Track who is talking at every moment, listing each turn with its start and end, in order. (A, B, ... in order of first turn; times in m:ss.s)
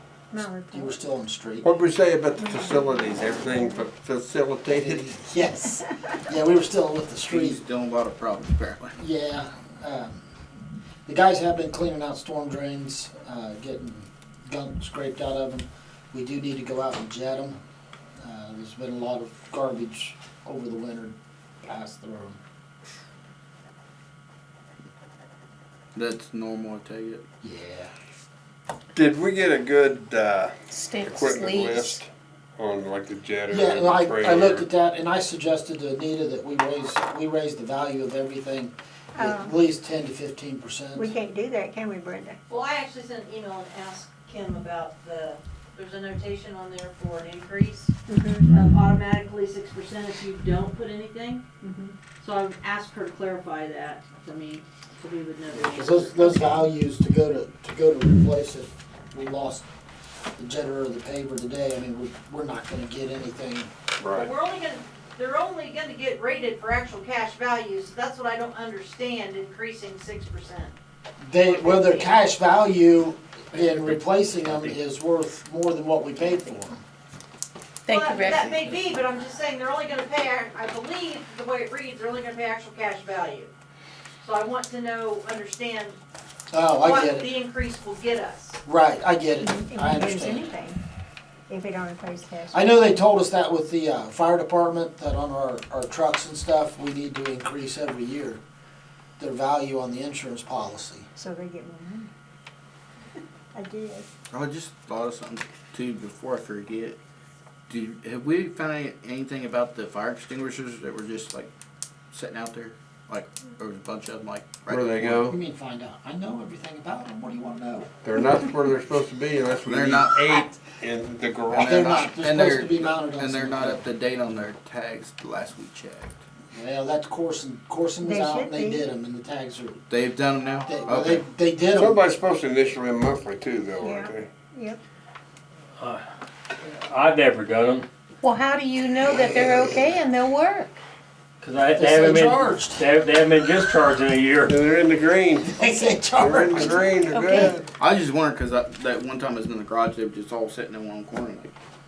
0:00.3-0:01.0 A
0:00.7-0:01.8 B
0:01.6-0:05.1 C
0:02.4-0:03.9 A
0:04.7-0:07.6 B
0:07.3-0:09.0 D
0:09.0-0:10.2 B
0:11.1-0:17.6 B
0:18.2-0:22.4 B
0:26.0-0:27.2 D
0:27.4-0:27.9 B
0:28.9-0:34.7 C
0:30.7-0:32.0 E
0:33.5-0:41.1 B
0:39.2-0:39.6 A
0:41.0-0:42.4 A
0:42.5-0:47.9 F
0:48.1-0:48.5 A
0:48.5-0:56.5 F
0:55.6-0:59.6 B
1:00.4-1:03.7 B
1:04.0-1:04.3 C
1:04.1-1:10.7 F
1:11.2-1:16.8 B
1:11.5-1:12.2 F
1:13.9-1:14.7 G
1:17.9-1:18.6 E
1:17.9-1:23.5 F
1:24.2-1:26.0 F
1:26.5-1:27.3 B
1:26.8-1:28.6 F
1:28.7-1:30.5 B
1:29.4-1:30.8 A
1:31.5-1:32.9 A
1:32.5-1:38.4 B
1:39.2-1:41.1 B
1:41.2-1:42.1 A
1:43.5-1:44.1 A
1:44.3-1:47.0 D
1:47.7-1:51.5 D
1:52.1-1:55.3 D
1:54.7-1:55.3 C
1:55.3-1:57.9 B
1:58.0-2:01.8 C
1:59.6-2:00.5 D
2:01.5-2:06.1 D
2:01.6-2:03.9 B
2:06.5-2:09.8 B
2:08.0-2:08.9 A
2:09.9-2:11.2 D
2:10.6-2:12.0 B
2:11.7-2:14.3 C
2:13.8-2:14.8 A
2:16.6-2:17.9 G
2:18.2-2:20.8 E
2:21.4-2:24.6 G
2:21.8-2:22.9 B
2:24.5-2:25.6 C
2:25.4-2:27.0 B
2:26.2-2:27.7 C
2:27.1-2:27.5 E
2:27.8-2:31.5 D